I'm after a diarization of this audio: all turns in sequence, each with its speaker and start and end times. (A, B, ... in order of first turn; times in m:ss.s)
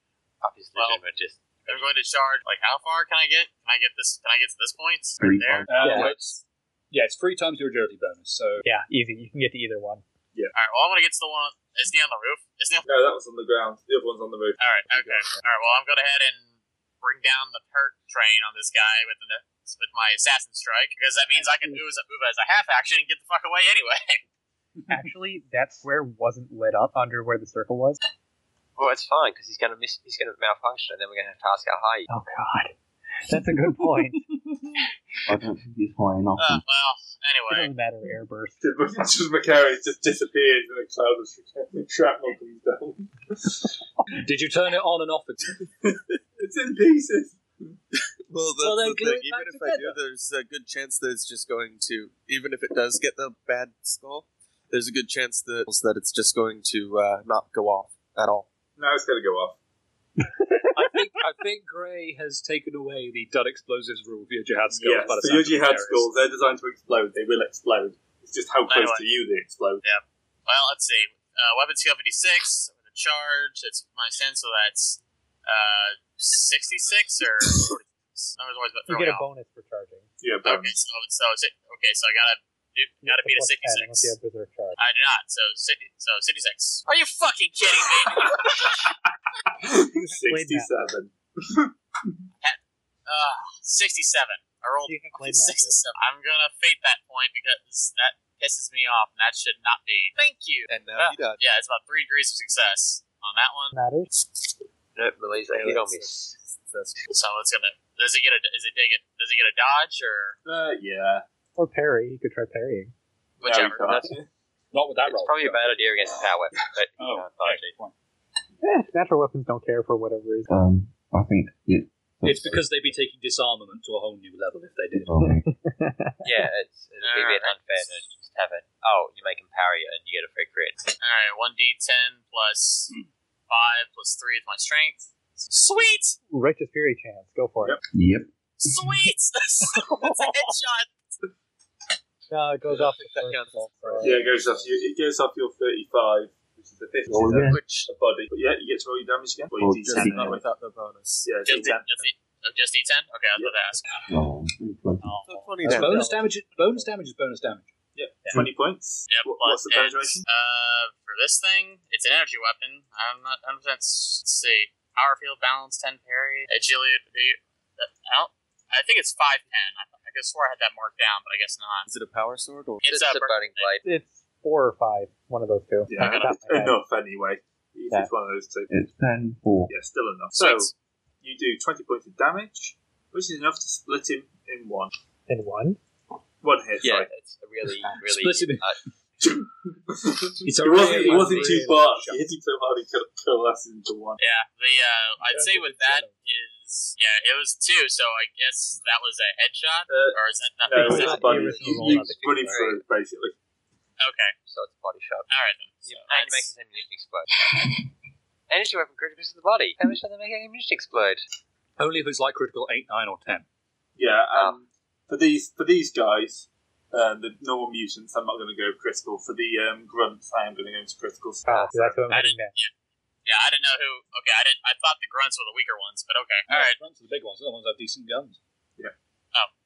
0:00.4-0:01.9 A
0:01.7-0:06.2 B
0:05.2-0:06.0 C
0:05.7-0:08.6 D
0:05.8-0:06.1 E
0:08.6-0:10.0 E
0:10.5-0:12.8 B
0:12.8-0:15.8 F
0:14.6-0:16.4 B
0:17.0-0:24.2 B
0:21.3-0:21.8 E
0:24.9-0:28.0 E
0:28.8-0:32.1 A
0:32.1-0:32.7 E
0:33.3-0:34.3 E
0:35.3-0:36.6 C
0:36.4-0:37.7 B
0:37.5-0:38.6 E
0:38.6-0:43.7 F
0:44.1-0:45.4 D
0:45.6-0:47.8 F
0:48.3-0:58.5 G
0:48.6-0:50.0 D
0:58.8-0:59.6 F
1:00.7-1:06.1 D
1:04.7-1:09.8 F
1:08.7-1:09.0 B
1:09.8-1:19.2 B
1:18.9-1:20.1 E
1:20.2-1:20.8 F
1:20.4-1:24.1 B
1:23.0-1:24.8 E
1:24.8-1:28.8 B
1:27.8-1:28.9 F
1:29.6-1:32.1 F
1:29.9-1:30.7 E
1:32.4-1:43.8 B
1:34.8-1:35.8 E
1:40.7-1:41.4 G
1:43.7-1:44.1 E
1:44.9-1:46.3 A
1:45.5-1:47.0 G
1:47.1-1:50.4 B
1:50.4-1:51.2 F
1:51.6-1:52.9 E
1:53.4-1:54.1 B
1:53.4-1:54.3 F
1:53.8-1:54.1 A
1:54.7-1:55.7 D
1:55.0-1:57.7 A
1:57.0-1:57.9 D
1:58.6-2:00.5 E
2:00.5-2:02.9 C
2:02.2-2:05.1 D
2:04.9-2:05.5 C
2:05.2-2:06.2 E
2:06.2-2:10.8 A
2:07.0-2:07.8 B
2:11.0-2:12.9 B
2:13.5-2:16.2 B
2:16.3-2:17.8 E
2:17.9-2:19.0 C
2:18.6-2:20.9 B
2:19.8-2:20.4 E
2:22.3-2:24.3 E
2:22.7-2:24.7 G
2:24.0-2:30.5 F
2:27.1-2:27.6 C
2:29.6-2:30.4 C
2:29.8-2:31.7 G
2:31.2-2:32.0 F
2:31.4-2:33.8 B
2:33.3-2:33.6 F
2:34.1-2:35.1 C
2:35.1-2:36.2 E
2:35.2-2:36.1 G
2:35.7-2:37.7 D
2:37.9-2:40.2 F
2:39.1-2:51.9 B
2:51.8-2:52.8 G
2:52.8-2:53.7 B
2:52.9-2:53.8 A
2:53.8-2:56.8 E
2:55.9-2:58.7 F
2:55.9-2:56.4 B
2:58.7-2:59.7 C
2:59.7-3:04.9 F
3:00.4-3:00.7 B
3:05.3-3:05.8 E
3:06.4-3:07.1 F
3:06.8-3:08.8 A
3:07.9-3:08.7 D
3:09.2-3:14.2 F
3:10.4-3:12.2 D
3:10.7-3:11.8 E
3:14.2-3:22.0 B
3:19.9-3:23.3 F
3:20.7-3:22.6 E
3:21.7-3:22.8 A
3:24.0-3:24.4 B
3:24.5-3:25.3 A
3:25.3-3:26.5 B
3:25.8-3:27.3 A
3:28.5-3:31.2 A
3:31.8-3:33.4 D
3:34.0-3:41.9 F
3:34.3-3:34.6 A
3:41.5-3:41.7 A
3:41.5-3:42.5 E
3:42.1-3:42.7 B
3:43.2-3:46.8 B
3:46.5-3:48.4 D